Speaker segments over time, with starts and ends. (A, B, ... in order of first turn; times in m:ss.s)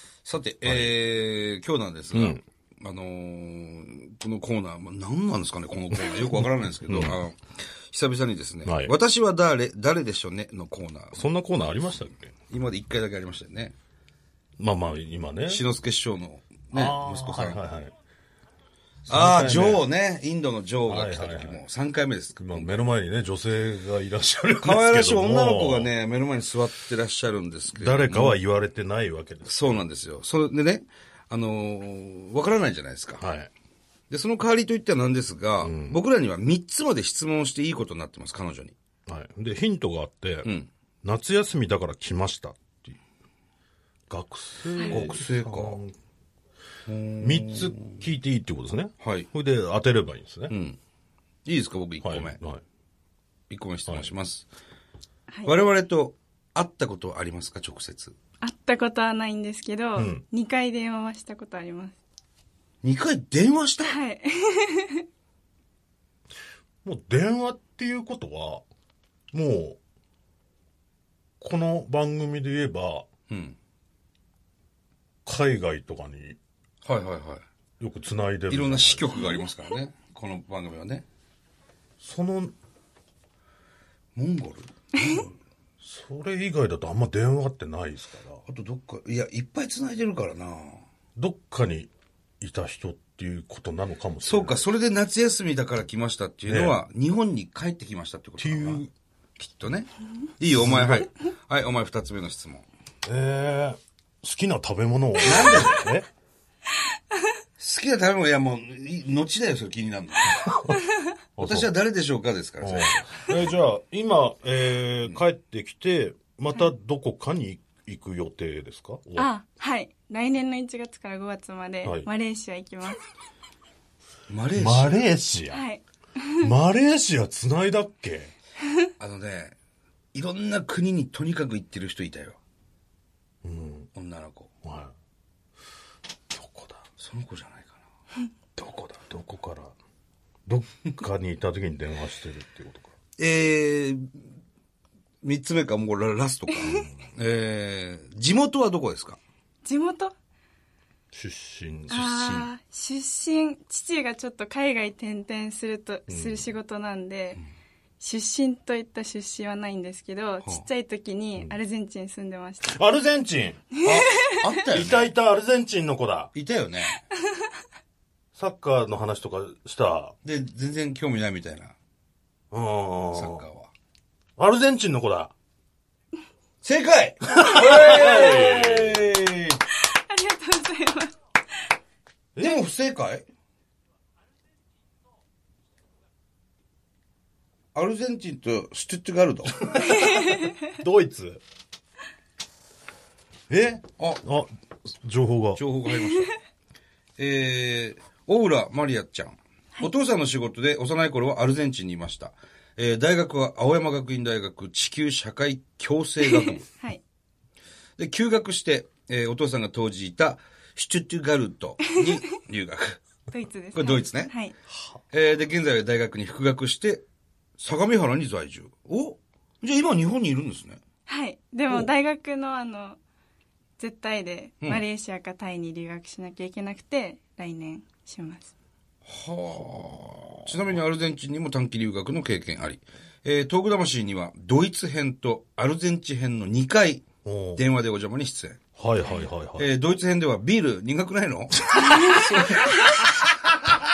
0:00.2-0:11.2 A
0:00.6-0:00.9 B
0:02.1-0:02.4 B
0:06.4-0:07.2 B
0:08.6-0:08.9 B
0:11.1-0:12.3 B
0:12.5-0:13.7 A
0:14.6-0:15.6 B
0:15.5-0:17.6 A
0:16.7-0:17.9 B
0:19.1-0:19.8 B
0:19.1-0:22.8 A
0:20.9-0:21.6 B
0:22.4-0:25.9 B
0:24.6-0:28.4 A
0:27.7-0:29.8 B
0:29.4-0:33.2 A
0:33.2-0:33.5 B
0:34.1-0:38.7 A
0:35.6-0:36.0 B
0:39.1-0:40.5 B
0:41.0-0:43.0 B
0:44.1-0:45.9 B
0:44.8-0:45.1 C
0:44.8-0:45.8 A
0:46.9-0:48.0 A
0:47.2-0:50.5 B
0:49.0-0:49.3 A
0:50.5-0:50.8 A
0:51.4-0:52.4 A
0:52.0-0:52.6 B
0:53.5-0:54.5 A
0:53.9-0:54.1 B
0:55.4-0:58.1 A
0:58.4-1:02.0 C
1:00.0-1:00.2 B
1:02.8-1:04.0 A
1:03.8-1:05.0 C
1:06.8-1:08.6 B
1:09.3-1:09.8 B
1:11.4-1:13.1 B
1:13.3-1:13.6 A
1:15.2-1:16.4 B
1:16.8-1:17.4 A
1:17.8-1:19.2 B
1:18.5-1:21.0 A
1:22.0-1:22.5 B
1:24.1-1:25.3 A
1:25.8-1:28.4 B
1:28.4-1:30.8 A
1:31.2-1:34.7 B
1:34.2-1:38.8 A
1:36.5-1:36.8 B
1:38.4-1:38.9 B
1:39.4-1:42.6 A
1:40.5-1:41.1 B
1:43.0-1:46.1 B
1:45.2-1:45.9 A
1:47.6-1:50.6 A
1:51.4-1:51.7 B
1:51.4-1:53.5 A
1:52.6-1:59.3 B
1:59.2-2:03.0 C
2:04.3-2:05.0 A
2:04.5-2:05.6 B
2:05.5-2:06.5 C
2:06.4-2:08.3 B
2:09.0-2:09.6 A
2:10.1-2:12.4 A
2:13.4-2:13.9 B
2:13.9-2:14.5 A
2:14.6-2:14.9 B
2:16.3-2:16.8 B
2:17.0-2:17.8 A
2:18.6-2:19.7 B
2:20.4-2:22.9 B
2:23.2-2:24.2 A
2:25.2-2:29.2 A
2:26.5-2:26.9 C
2:26.6-2:27.0 B
2:29.6-2:30.1 C
2:31.1-2:32.0 B
2:31.9-2:32.5 A
2:31.9-2:37.4 C
2:36.1-2:36.5 B
2:38.0-2:42.8 C
2:42.6-2:43.6 B
2:43.7-2:44.6 C
2:43.8-2:45.1 A
2:44.6-2:46.3 B
2:46.3-2:47.0 A
2:48.3-2:50.1 B
2:50.2-2:51.7 A
2:52.5-2:53.4 B
2:53.1-2:53.7 A
2:54.4-2:55.3 B
2:56.6-2:59.6 A
2:57.3-2:59.1 B
2:57.6-2:58.5 C
2:59.8-3:01.1 C
3:02.3-3:02.6 B
3:02.4-3:03.2 A
3:07.7-3:10.0 A
3:09.6-3:11.4 B
3:09.8-3:10.6 C
3:13.5-3:15.6 B
3:15.6-3:16.3 A
3:15.9-3:16.3 C
3:17.2-3:26.6 A
3:26.2-3:27.0 C
3:28.0-3:33.0 A
3:33.3-3:34.5 C
3:33.7-3:34.3 A
3:34.7-3:35.0 B
3:35.1-3:37.0 A
3:37.6-3:40.8 A
3:41.1-3:43.0 C
3:43.8-3:48.5 C
3:49.1-3:58.6 A
3:57.2-3:57.6 B
3:58.8-3:59.7 B
3:59.6-4:03.1 A
4:01.7-4:02.6 B
4:01.8-4:03.0 C